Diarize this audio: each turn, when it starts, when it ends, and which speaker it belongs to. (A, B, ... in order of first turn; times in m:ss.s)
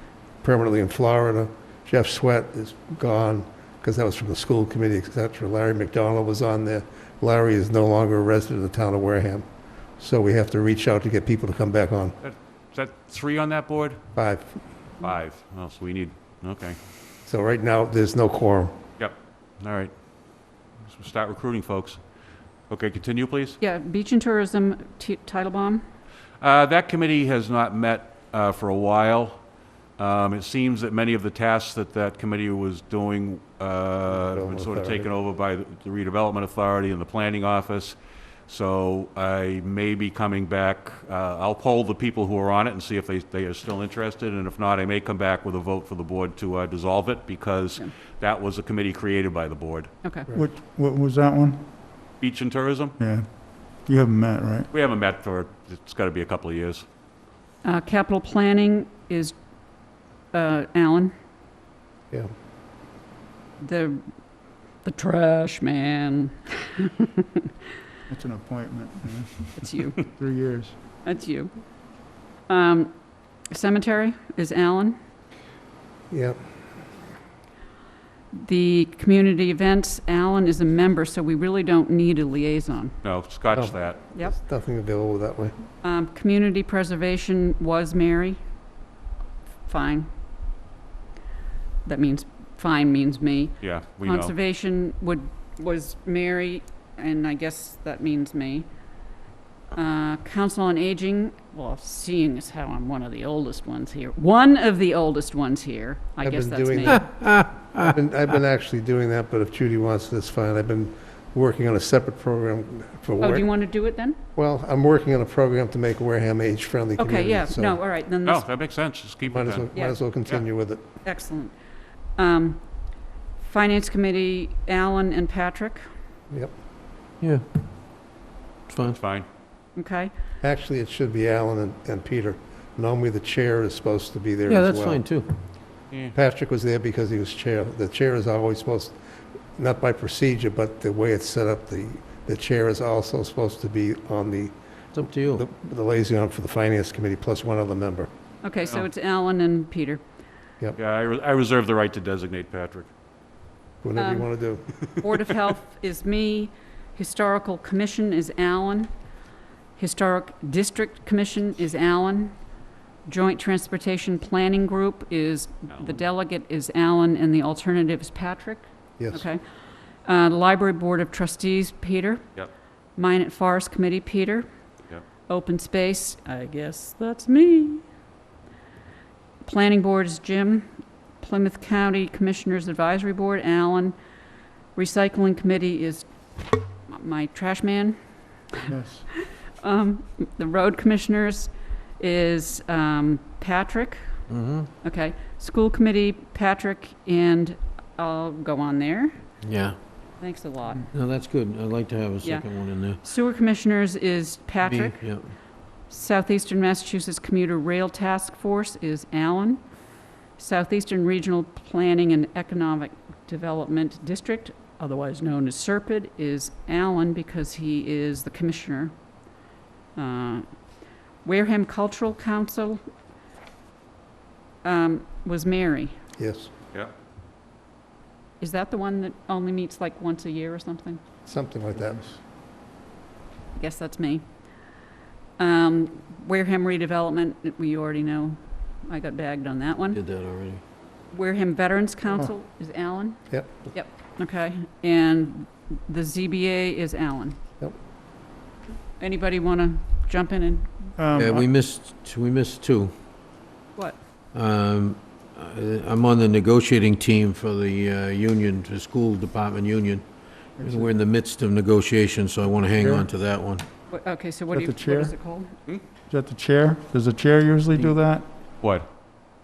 0:00.4-0:09.5 A
0:10.0-0:12.2 A
0:12.2-0:14.0 B
0:14.2-0:14.6 A
0:15.0-0:16.8 B
0:17.2-0:18.8 A
0:19.0-0:19.9 B
0:20.9-0:22.0 B
0:22.7-0:23.6 B
0:23.6-0:25.8 C
0:26.4-0:29.4 B
0:30.0-0:49.9 B
0:34.1-0:35.1 A
0:50.0-0:50.3 C
0:50.3-0:51.7 D
0:52.2-0:53.0 B
0:53.0-0:54.7 D
0:54.7-0:56.8 B
0:57.6-0:59.4 C
1:00.3-1:01.1 C
1:03.6-1:04.0 C
1:04.8-1:07.4 C
1:08.1-1:10.8 D
1:09.6-1:10.1 C
1:11.0-1:11.5 C
1:12.5-1:12.9 C
1:13.4-1:15.0 C
1:16.1-1:16.4 A
1:18.3-1:22.9 C
1:23.0-1:24.0 B
1:23.5-1:25.6 A
1:25.8-1:28.4 C
1:29.7-1:30.1 C
1:31.8-1:38.7 C
1:33.6-1:34.3 B
1:39.7-1:47.1 C
1:46.2-1:53.4 A
1:46.9-1:47.8 E
1:53.2-1:54.2 C
1:54.4-1:57.8 A
1:57.0-1:58.4 C
1:58.2-1:59.7 B
1:59.3-2:00.8 A
1:59.7-2:00.0 C
2:01.0-2:01.6 C
2:02.2-2:02.6 C
2:03.4-2:05.9 C
2:08.7-2:09.0 E
2:08.8-2:09.3 B
2:09.8-2:10.1 C
2:10.4-2:15.0 A
2:14.5-2:15.3 E
2:16.1-2:19.0 A
2:19.6-2:24.5 A
2:24.9-2:25.4 E
2:25.3-2:28.1 A
2:28.4-2:30.0 C
2:30.8-2:32.9 B
2:33.8-2:34.7 A
2:34.0-2:34.3 C
2:35.0-2:38.9 C
2:39.8-2:42.4 C
2:43.1-2:49.4 C
2:45.7-2:46.0 B
2:49.0-2:49.2 A
2:50.0-2:52.2 C
2:53.0-2:54.5 C
2:55.3-2:57.9 C
2:59.4-3:04.0 C
3:04.8-3:08.0 C
3:08.7-3:09.0 D
3:09.6-3:14.1 C
3:14.3-3:14.7 E
3:14.8-3:19.2 C
3:19.4-3:19.8 E
3:20.2-3:20.9 C
3:20.9-3:23.0 E
3:22.2-3:22.5 C
3:23.0-3:25.2 C
3:24.6-3:25.3 E
3:25.9-3:29.6 C
3:30.4-3:38.9 C
3:40.0-3:40.5 C
3:41.2-3:42.8 C
3:44.6-3:46.0 C
3:46.2-3:46.5 A
3:48.4-3:51.0 C
3:51.2-3:52.2 A
3:53.6-3:54.2 C
3:55.4-4:00.0 C
3:59.9-4:00.6 E
4:01.1-4:07.4 C
4:09.0-4:10.9 C
4:11.0-4:11.5 D
4:11.2-4:12.9 E
4:14.3-4:20.1 E
4:20.6-4:20.9 D
4:20.6-4:23.6 E
4:22.8-4:23.1 D
4:23.9-4:25.5 C
4:24.5-4:25.1 D
4:26.1-4:28.3 D
4:28.6-4:28.9 B